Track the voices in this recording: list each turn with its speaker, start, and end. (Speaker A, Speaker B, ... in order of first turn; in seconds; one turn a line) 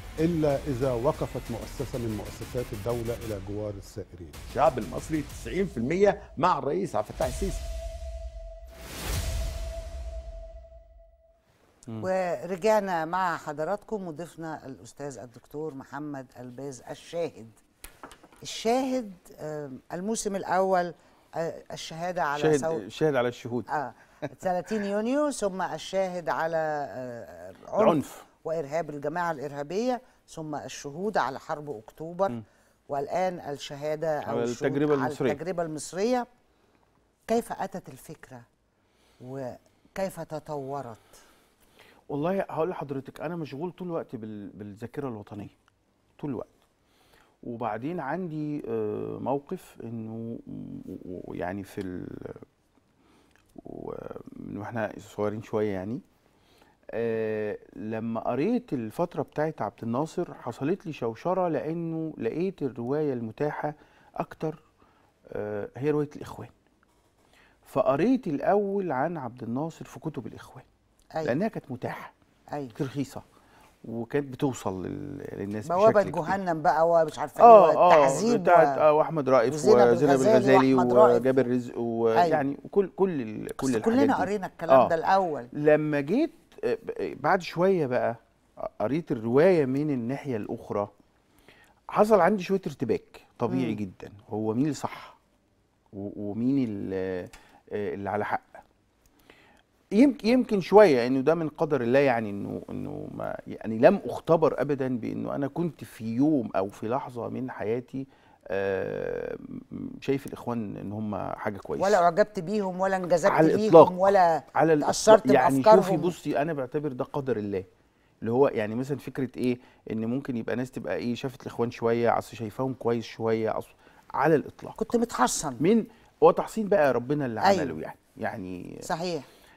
Speaker A: 0.2-4.3
Speaker B: 4.5-7.6
Speaker C: 12.0-17.6
Speaker C: 18.4-22.8
Speaker D: 22.4-23.7
Speaker C: 23.7-32.4
Speaker D: 27.8-28.2
Speaker C: 32.9-36.2
Speaker D: 34.2-35.4
Speaker C: 37.3-38.4
Speaker C: 39.2-41.1
Speaker D: 42.1-45.5
Speaker D: 46.2-46.5
Speaker D: 47.4-52.4
Speaker D: 53.6-56.0
Speaker D: 56.9-64.6
Speaker D: 65.3-66.5
Speaker D: 67.7-70.6
Speaker D: 71.2-72.1
Speaker D: 72.8-73.2
Speaker D: 73.8-76.4
Speaker C: 75.7-78.8
Speaker D: 77.3-84.9
Speaker C: 79.5-81.4
Speaker C: 82.2-82.4
Speaker C: 83.6-85.5
Speaker D: 85.6-88.1
Speaker D: 88.8-90.9
Speaker D: 91.9-95.2
Speaker C: 93.5-93.8
Speaker D: 95.9-98.6
Speaker D: 99.9-112.0
Speaker C: 111.8-116.1
Speaker D: 113.2-117.7
Speaker D: 118.2-124.8
Speaker C: 124.8-125.6
Speaker D: 125.6-128.7
Speaker C: 127.4-127.8
Speaker C: 128.8-129.2